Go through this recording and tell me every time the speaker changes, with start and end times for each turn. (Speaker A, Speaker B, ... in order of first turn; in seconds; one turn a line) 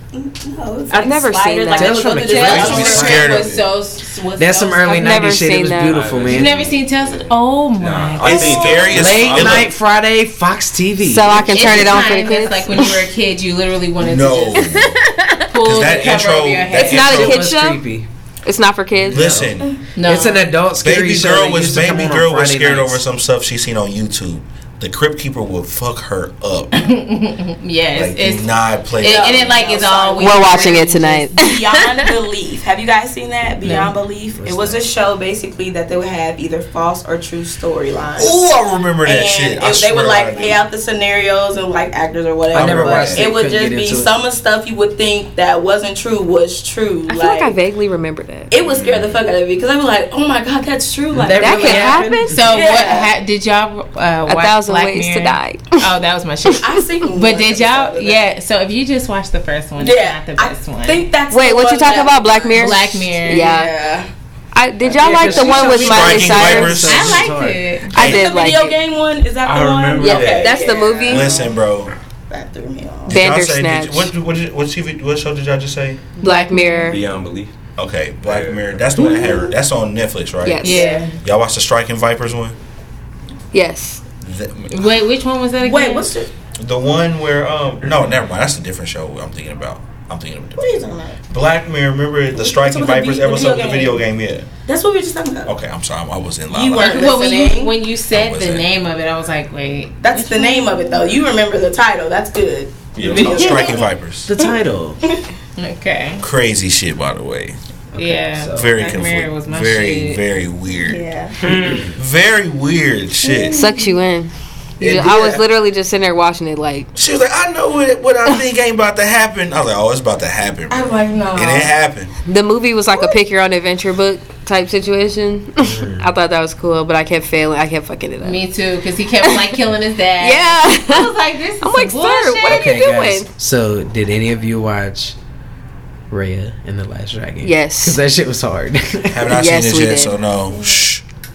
Speaker A: 0.1-3.3
Speaker B: 0.9-2.2
Speaker C: 1.7-3.4
Speaker D: 2.1-5.3
Speaker E: 2.3-3.7
Speaker C: 4.4-6.5
Speaker B: 4.8-6.1
Speaker F: 5.9-9.7
Speaker D: 6.3-8.7
Speaker E: 8.2-9.7
Speaker C: 8.9-12.0
Speaker B: 11.0-13.0
Speaker D: 11.3-14.8
Speaker E: 14.0-15.0
Speaker B: 14.6-15.4
Speaker D: 15.5-17.4
Speaker E: 15.6-17.5
Speaker B: 16.7-17.8
Speaker C: 16.8-18.1
Speaker B: 18.4-19.4
Speaker C: 19.1-23.0
Speaker E: 19.1-19.7
Speaker D: 19.9-20.5
Speaker E: 20.8-26.9
Speaker D: 26.7-31.4
Speaker E: 27.9-29.6
Speaker A: 29.0-30.8
Speaker B: 30.2-31.8
Speaker A: 31.4-38.4
Speaker D: 33.6-34.0
Speaker C: 34.3-34.8
Speaker E: 38.1-40.6
Speaker A: 39.0-47.5
Speaker C: 42.5-44.1
Speaker E: 42.6-43.2
Speaker B: 47.1-48.7
Speaker A: 48.5-51.9
Speaker F: 48.7-49.2
Speaker C: 51.1-52.5
Speaker B: 51.4-52.4
Speaker D: 51.9-61.1
Speaker A: 52.5-53.1
Speaker B: 54.3-55.9
Speaker A: 56.6-58.2
Speaker A: 59.8-64.1
Speaker B: 61.3-63.7
Speaker D: 62.5-63.6
Speaker B: 64.5-66.9
Speaker C: 64.9-67.6
Speaker A: 65.2-66.3
Speaker E: 65.7-67.3
Speaker D: 66.7-68.0
Speaker B: 67.9-68.8
Speaker E: 68.0-68.3
Speaker A: 68.0-71.6
Speaker F: 69.4-70.7
Speaker B: 70.0-71.3
Speaker E: 71.1-71.9
Speaker A: 72.3-73.3
Speaker E: 73.1-76.0
Speaker B: 73.1-74.1
Speaker D: 76.2-77.0
Speaker B: 76.2-77.0
Speaker F: 76.9-77.5
Speaker E: 77.8-82.5
Speaker F: 78.2-79.0
Speaker B: 79.0-79.5
Speaker A: 79.0-79.5
Speaker B: 80.4-81.0
Speaker A: 80.6-81.1
Speaker D: 80.6-81.2
Speaker B: 83.5-84.0
Speaker E: 84.2-84.9
Speaker D: 84.7-86.2
Speaker A: 85.6-86.3
Speaker E: 86.6-94.5
Speaker A: 90.5-91.2
Speaker A: 92.3-94.0
Speaker A: 94.7-95.5
Speaker E: 95.5-97.1
Speaker A: 96.5-97.8
Speaker D: 96.8-101.2
Speaker E: 98.1-98.7
Speaker A: 100.0-105.2
Speaker F: 103.0-103.6
Speaker E: 103.0-104.3
Speaker C: 104.3-105.0
Speaker D: 105.6-106.2
Speaker E: 106.2-107.6
Speaker D: 107.9-110.2
Speaker C: 108.0-108.7
Speaker E: 108.5-111.0
Speaker A: 110.8-111.4
Speaker F: 111.4-111.9
Speaker E: 111.9-113.6
Speaker A: 113.2-114.0
Speaker B: 113.5-116.9
Speaker E: 114.8-115.4
Speaker E: 117.0-122.1
Speaker A: 120.7-121.7
Speaker B: 122.3-128.4
Speaker A: 122.9-123.2
Speaker C: 125.6-126.1
Speaker D: 128.2-132.7
Speaker B: 129.3-129.5
Speaker B: 130.2-133.3
Speaker C: 132.4-135.2
Speaker C: 136.1-139.3
Speaker B: 137.4-138.0
Speaker E: 139.1-141.0
Speaker B: 139.3-140.1
Speaker A: 140.5-140.8